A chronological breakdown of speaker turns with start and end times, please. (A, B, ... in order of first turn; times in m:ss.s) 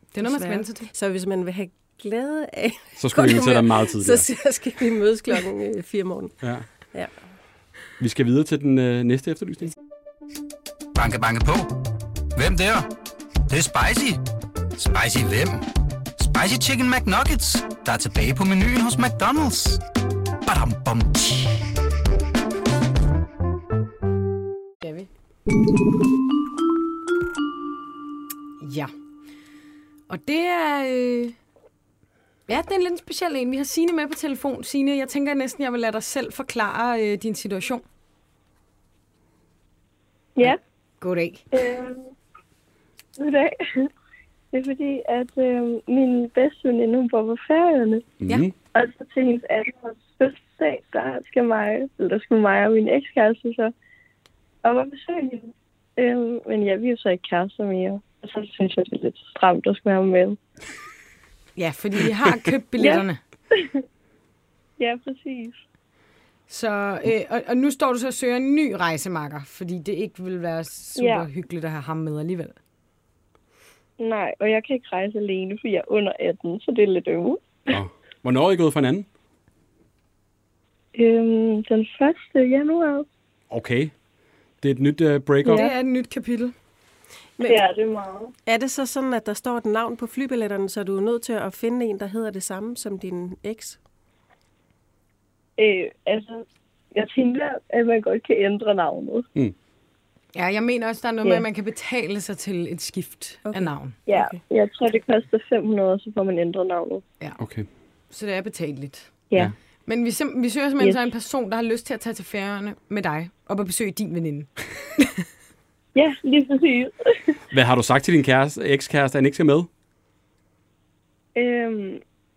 0:00.1-0:00.9 A
0:00.2-0:07.1 B
0:03.0-0:04.3 C
0:08.0-0:09.7 C
0:10.9-0:11.7 D
0:12.3-0:12.9 D
0:13.5-0:14.2 D
0:14.7-0:19.8 D
0:20.4-0:21.7 D
0:24.8-0:25.1 A
0:28.6-0:28.9 A
0:30.1-0:31.4 A
0:32.5-0:37.8 A
0:40.4-0:41.4 A
0:41.5-0:42.1 E
0:43.2-0:43.9 E
0:44.5-0:48.0 E
0:48.2-0:48.5 C
0:48.7-0:53.7 E
0:54.6-1:00.4 E
1:01.6-1:03.2 A
1:02.8-1:03.8 E
1:04.8-1:05.6 E
1:06.5-1:12.6 A
1:11.0-1:11.3 E
1:14.0-1:17.6 E
1:17.7-1:19.1 C
1:20.9-1:23.1 E
1:23.5-1:23.9 C
1:24.6-1:25.7 C
1:25.4-1:26.5 A
1:27.4-1:27.6 B
1:27.4-1:28.3 E
1:28.4-1:33.8 B
1:35.6-1:39.3 E
1:40.3-1:44.0 A
1:43.4-1:44.4 B
1:44.1-1:47.0 E
1:47.4-1:47.7 C
1:48.1-1:49.2 A
1:49.8-1:55.2 A
1:55.9-1:57.4 E
1:57.5-1:59.7 C
2:01.3-2:02.0 E